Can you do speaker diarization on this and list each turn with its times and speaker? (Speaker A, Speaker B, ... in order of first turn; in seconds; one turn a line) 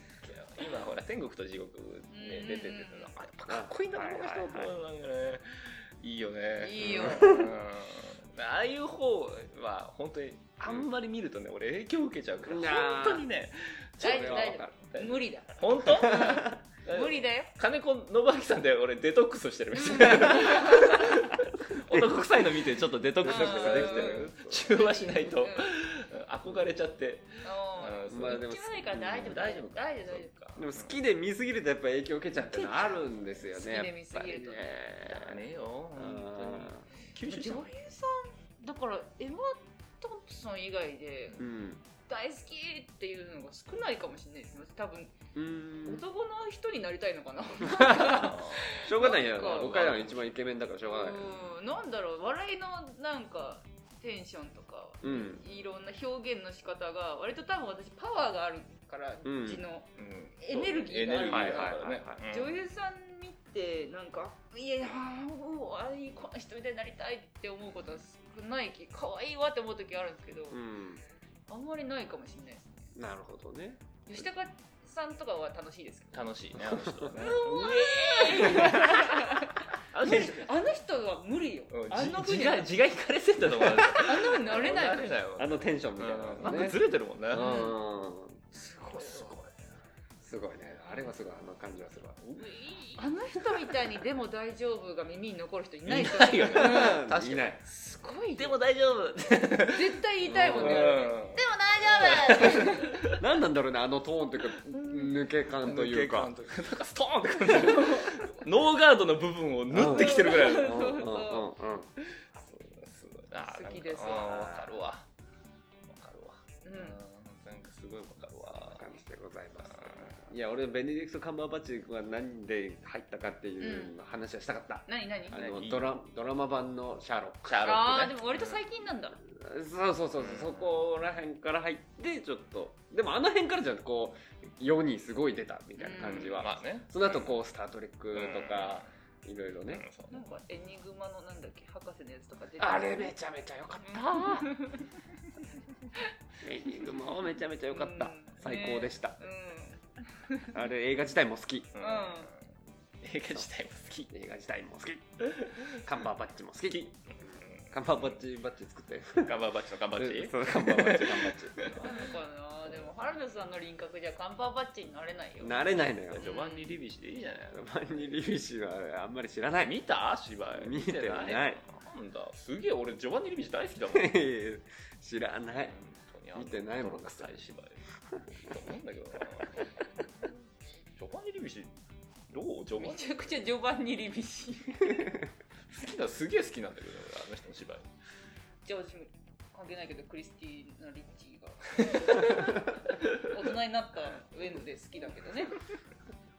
Speaker A: 0.2-28.4
Speaker B: 2.1-3.1
Speaker C: 3.5-4.7
Speaker B: 6.6-7.5
Speaker C: 6.8-7.5
Speaker C: 12.4-13.3
Speaker C: 14.0-14.8
Speaker B: 14.0-17.5
Speaker C: 15.8-16.6
Speaker B: 19.9-21.1
Speaker C: 23.2-24.7
Speaker B: 23.2-25.7
Speaker B: 27.4-30.3
Speaker C: 28.1-29.4
Speaker A: 29.1-31.0
Speaker C: 30.6-35.4
Speaker B: 32.4-34.7
Speaker A: 35.1-37.7
Speaker C: 36.0-36.8
Speaker B: 37.2-41.5
Speaker C: 41.4-41.8
Speaker B: 42.1-45.1
Speaker C: 45.4-46.0
Speaker B: 45.9-50.0
Speaker C: 47.6-51.3
Speaker A: 48.0-50.2
Speaker B: 50.8-59.9
Speaker C: 55.0-55.4
Speaker C: 59.2-59.6
Speaker A: 60.0-62.6
Speaker B: 60.4-70.6
Speaker C: 61.2-62.2
Speaker C: 70.5-71.0
Speaker B: 71.5-72.8
Speaker C: 73.0-73.8
Speaker B: 74.1-76.3
Speaker A: 76.1-80.5
Speaker C: 76.6-77.1
Speaker B: 77.1-82.7
Speaker C: 78.4-79.1
Speaker C: 80.0-80.3
Speaker A: 81.7-87.6
Speaker B: 83.7-85.2
Speaker C: 85.4-86.8
Speaker C: 87.3-88.4
Speaker B: 87.4-87.8
Speaker B: 88.6-89.3
Speaker A: 88.8-89.5
Speaker C: 90.2-92.2
Speaker A: 92.2-93.1
Speaker B: 93.0-97.0
Speaker A: 95.9-97.6
Speaker C: 96.4-97.6
Speaker B: 97.6-98.6
Speaker A: 98.4-103.2
Speaker B: 99.7-103.0
Speaker C: 100.2-101.0
Speaker C: 102.3-106.3
Speaker B: 104.8-105.0
Speaker A: 105.6-111.1
Speaker C: 109.7-111.9
Speaker B: 109.8-111.5
Speaker A: 112.2-115.1
Speaker B: 113.4-114.5
Speaker C: 114.2-114.7
Speaker A: 115.9-118.9
Speaker B: 116.7-117.0
Speaker C: 118.5-127.6
Speaker A: 119.7-120.3
Speaker B: 123.6-124.0
Speaker B: 124.9-125.4
Speaker A: 125.3-125.9
Speaker A: 127.5-128.6
Speaker B: 127.6-129.2
Speaker C: 129.2-139.8
Speaker A: 130.2-130.8
Speaker B: 135.8-136.4
Speaker A: 136.0-137.4
Speaker A: 138.1-138.9
Speaker A: 139.7-140.2
Speaker B: 140.1-143.1
Speaker C: 142.6-144.5
Speaker B: 143.9-144.9
Speaker C: 146.4-149.2
Speaker B: 147.7-150.6
Speaker C: 150.5-151.8
Speaker A: 151.8-152.4
Speaker B: 151.8-152.3
Speaker A: 153.0-154.1
Speaker C: 154.1-157.0
Speaker A: 155.2-155.8
Speaker A: 156.7-158.2
Speaker C: 157.7-159.4
Speaker A: 159.2-161.8
Speaker C: 160.0-161.8
Speaker B: 161.7-166.8
Speaker C: 165.4-166.3
Speaker A: 166.1-167.6
Speaker C: 167.5-169.8
Speaker A: 169.6-174.1
Speaker C: 170.6-171.6
Speaker C: 173.9-175.8
Speaker A: 175.6-177.8
Speaker C: 176.3-177.3
Speaker A: 178.4-179.7
Speaker A: 181.0-181.7
Speaker A: 182.3-183.3
Speaker B: 182.8-185.2
Speaker A: 185.7-187.9
Speaker B: 188.6-195.6
Speaker A: 191.9-193.2